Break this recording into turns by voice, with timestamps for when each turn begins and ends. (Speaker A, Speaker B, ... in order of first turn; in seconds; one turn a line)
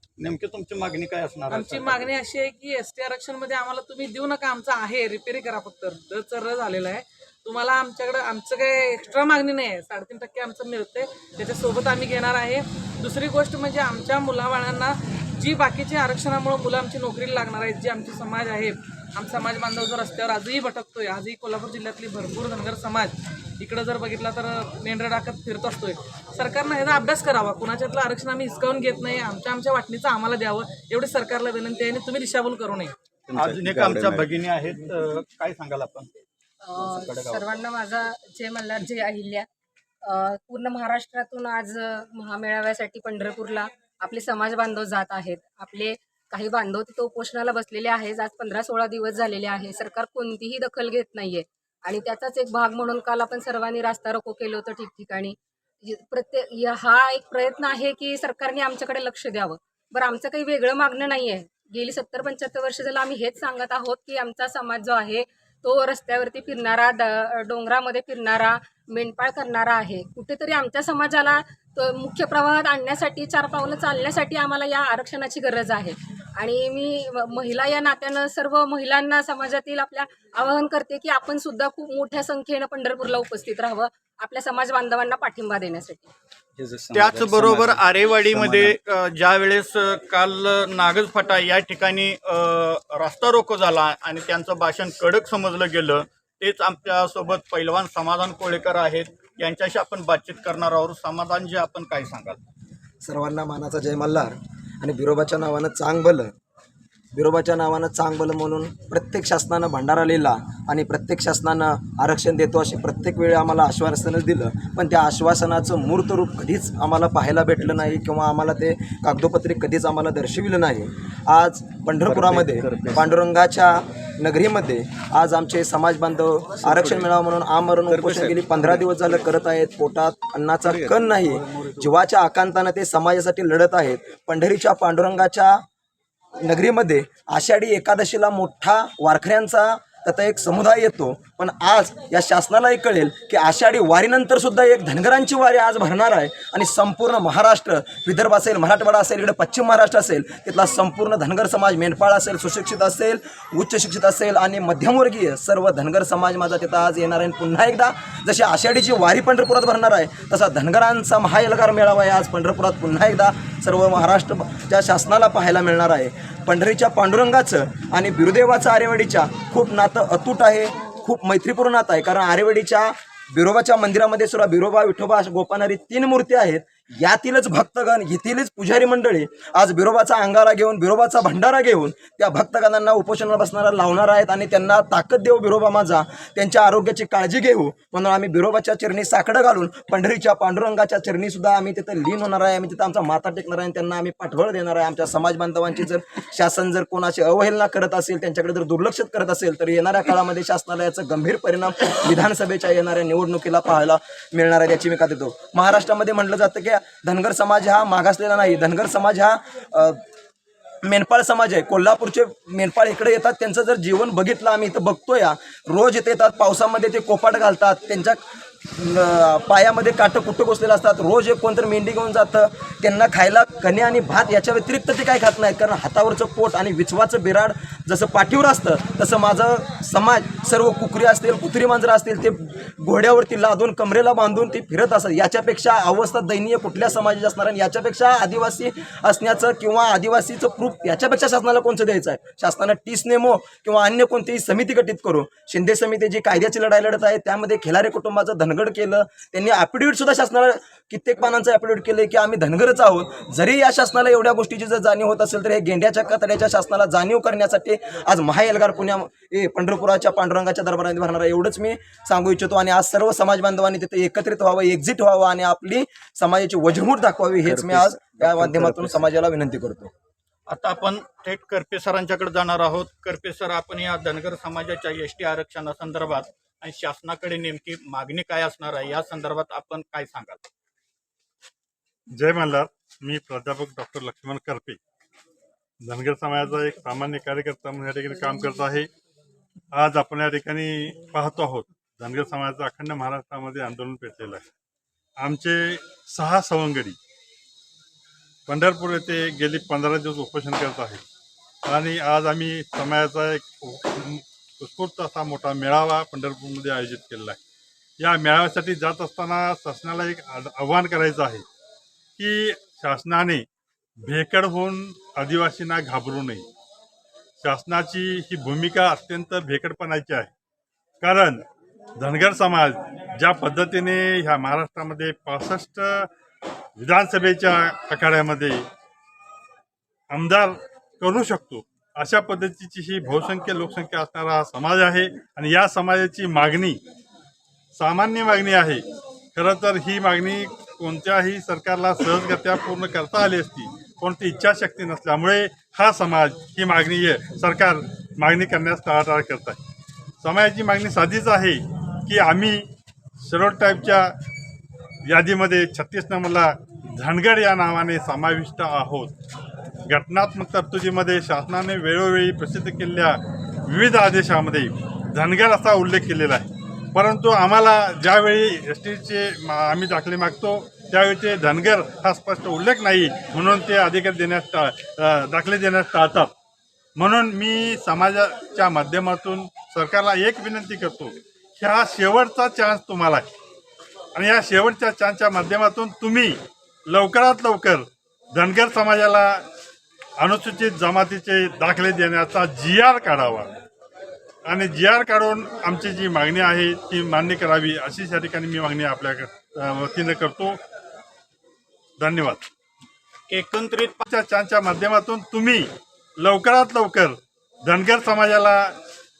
Speaker A: 0.2-2.1
Speaker B: 1.5-32.9
Speaker C: 33.3-34.3
Speaker A: 33.4-36.1
Speaker D: 36.6-39.5
Speaker A: 36.8-37.4
Speaker D: 40.0-86.1
Speaker C: 86.6-88.8
Speaker A: 86.9-102.4
Speaker E: 103.0-106.3
Speaker E: 107.1-135.6
Speaker C: 117.6-118.0
Speaker C: 122.0-123.2
Speaker C: 126.6-127.1
Speaker C: 127.8-129.4
Speaker C: 130.6-131.9
Speaker E: 136.4-210.0
Speaker E: 210.8-269.9
Speaker C: 267.4-269.2
Speaker A: 270.5-280.4
Speaker F: 282.1-284.8
Speaker F: 285.8-288.9
Speaker F: 289.7-294.4
Speaker F: 295.2-296.9
Speaker F: 298.5-301.0
Speaker F: 301.7-307.4
Speaker F: 308.0-311.4
Speaker F: 312.2-313.4
Speaker F: 314.0-316.4
Speaker F: 317.4-320.3
Speaker F: 321.0-321.4
Speaker F: 322.0-326.1
Speaker F: 326.8-328.6
Speaker F: 330.1-336.8
Speaker F: 337.8-338.8
Speaker F: 339.3-349.6
Speaker F: 350.2-352.6
Speaker F: 353.2-354.1
Speaker F: 355.1-359.1
Speaker F: 359.9-376.3
Speaker F: 377.0-383.2
Speaker F: 384.1-386.4
Speaker F: 386.9-389.4
Speaker F: 390.2-393.5
Speaker F: 394.4-400.6
Speaker F: 402.0-402.4
Speaker A: 403.3-404.0
Speaker F: 404.0-405.7
Speaker F: 406.2-408.7